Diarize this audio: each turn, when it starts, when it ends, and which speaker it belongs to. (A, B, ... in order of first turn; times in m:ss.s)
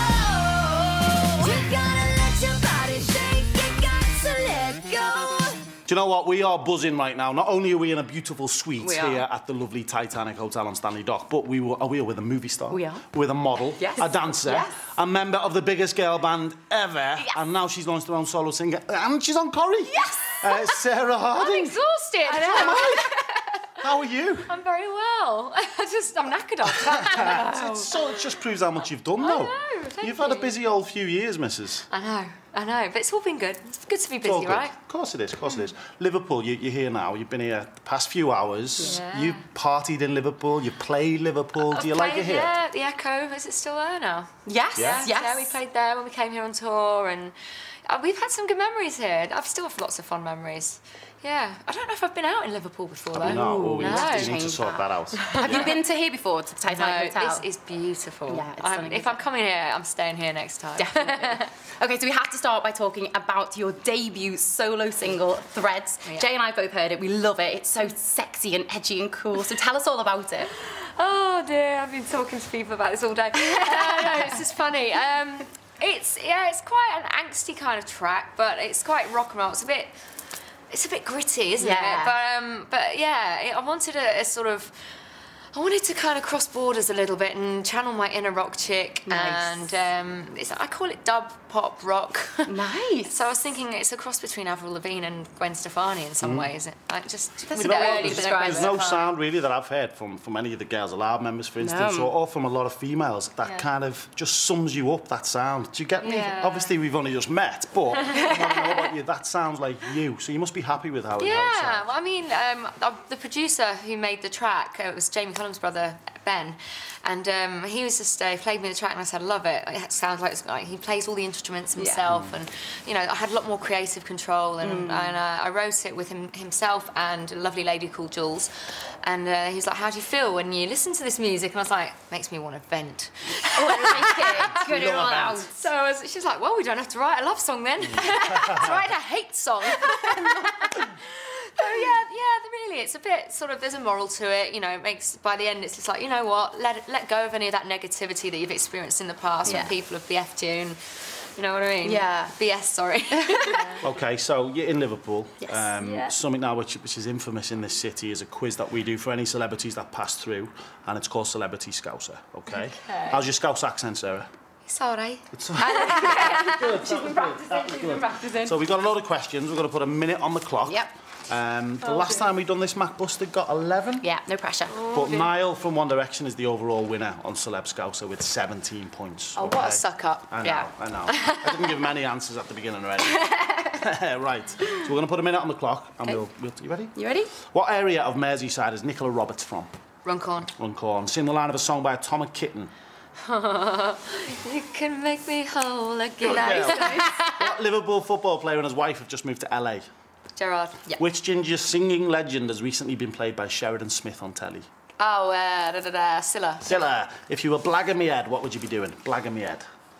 0:01.4-0:05.6 A
0:05.8-0:23.1 B
0:08.8-0:09.2 A
0:12.7-0:13.0 A
0:13.8-0:14.8 A
0:19.9-0:20.4 A
0:21.3-0:23.7 C
0:22.3-0:22.8 A
0:23.8-0:24.5 B
0:24.5-0:27.9 C
0:26.6-0:31.9 B
0:29.2-0:30.5 C
0:31.9-0:34.7 C
0:34.2-0:42.5 B
0:38.8-0:39.4 C
0:41.6-0:47.3 C
0:44.4-0:45.6 A
0:44.8-0:45.1 B
0:47.8-0:54.4 C
0:53.1-0:55.7 B
0:53.3-0:57.4 A
0:55.4-0:55.8 C
0:56.6-1:01.4 C
0:58.3-0:59.2 A
1:00.8-1:10.5 A
1:10.6-1:19.9 C
1:13.4-1:14.4 A
1:20.7-1:25.0 C
1:21.6-1:22.2 A
1:25.5-1:39.0 C
1:29.0-1:29.7 A
1:32.5-1:33.2 A
1:36.2-1:36.5 B
1:37.5-1:39.0 A
1:37.5-1:51.9 B
1:41.6-1:42.1 A
1:46.0-1:46.7 C
1:48.2-1:48.6 C
1:51.2-2:33.8 C
2:01.8-2:02.0 A
2:02.1-2:02.3 B
2:04.6-2:05.2 A
2:13.4-2:15.5 A
2:14.6-2:15.4 B
2:18.2-2:18.6 A
2:19.6-2:20.6 A
2:29.4-2:29.7 A
2:31.8-2:32.3 A
2:33.2-2:33.8 A
2:33.8-2:44.3 B
2:35.4-2:36.0 A
2:35.8-2:36.1 C
2:44.6-2:46.5 C
2:45.3-2:54.1 B
2:45.6-2:48.6 A
2:54.0-2:54.8 A
2:54.7-2:55.3 C
2:54.9-3:09.7 B
2:59.4-3:00.3 C
2:59.8-3:00.7 A
3:01.1-3:01.6 C
3:03.4-3:03.7 A
3:07.0-3:07.3 A
3:10.0-3:10.5 C
3:10.5-3:12.7 B
3:13.2-3:17.2 C
3:16.2-3:19.9 B
3:16.4-3:17.4 A
3:20.4-3:20.9 C
3:21.0-3:24.7 B
3:25.0-3:25.3 C
3:25.0-3:26.2 A
3:26.1-3:26.6 C
3:26.6-3:29.6 B